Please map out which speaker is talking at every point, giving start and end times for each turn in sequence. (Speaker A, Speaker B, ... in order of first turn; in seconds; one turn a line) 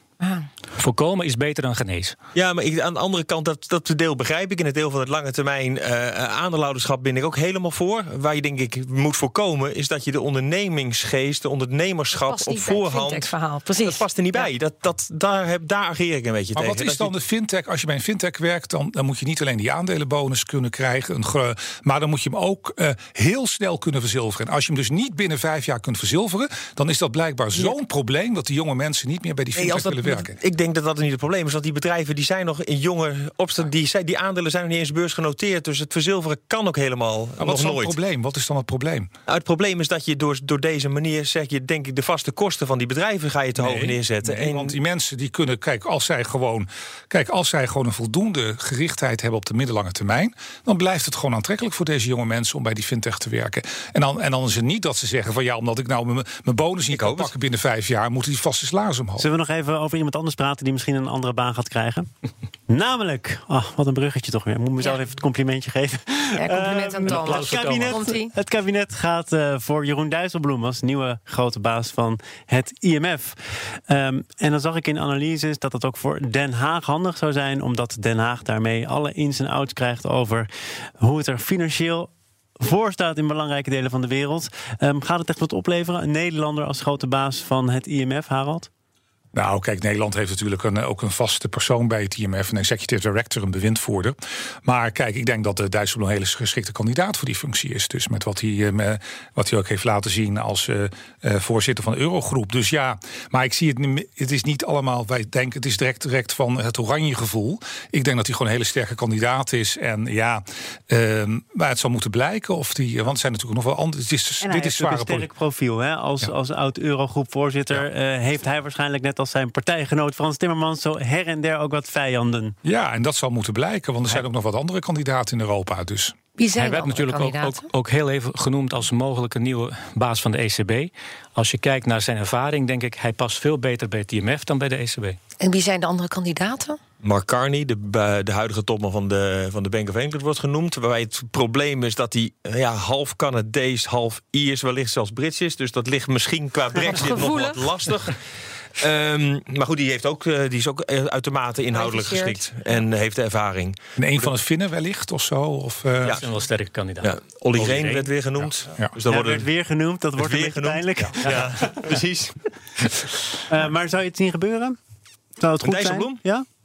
Speaker A: 0.2-0.5
Speaker B: 0.8-2.1
Speaker C: 2.3-17.1
Speaker A: 12.1-14.5
Speaker D: 16.5-30.4
Speaker C: 29.5-38.0
Speaker D: 37.4-39.1
Speaker C: 39.3-44.8
Speaker D: 43.5-59.3
Speaker C: 56.9-57.3
Speaker E: 59.2-62.1
Speaker E: 62.7-80.5
Speaker A: 66.3-68.3
Speaker B: 67.0-68.0
Speaker E: 81.0-88.7
Speaker D: 89.3-115.3
Speaker E: 114.4-122.5
Speaker D: 122.6-126.2
Speaker A: 126.4-127.7
Speaker B: 126.5-135.2
Speaker A: 135.4-136.8
Speaker C: 137.0-148.2
Speaker A: 146.9-147.9
Speaker C: 148.8-153.8
Speaker A: 151.7-152.8
Speaker D: 154.0-156.2
Speaker B: 156.0-158.6
Speaker C: 157.0-159.5
Speaker E: 159.1-161.9
Speaker C: 160.2-163.1
Speaker E: 163.5-164.8
Speaker E: 165.4-166.4
Speaker C: 165.6-166.2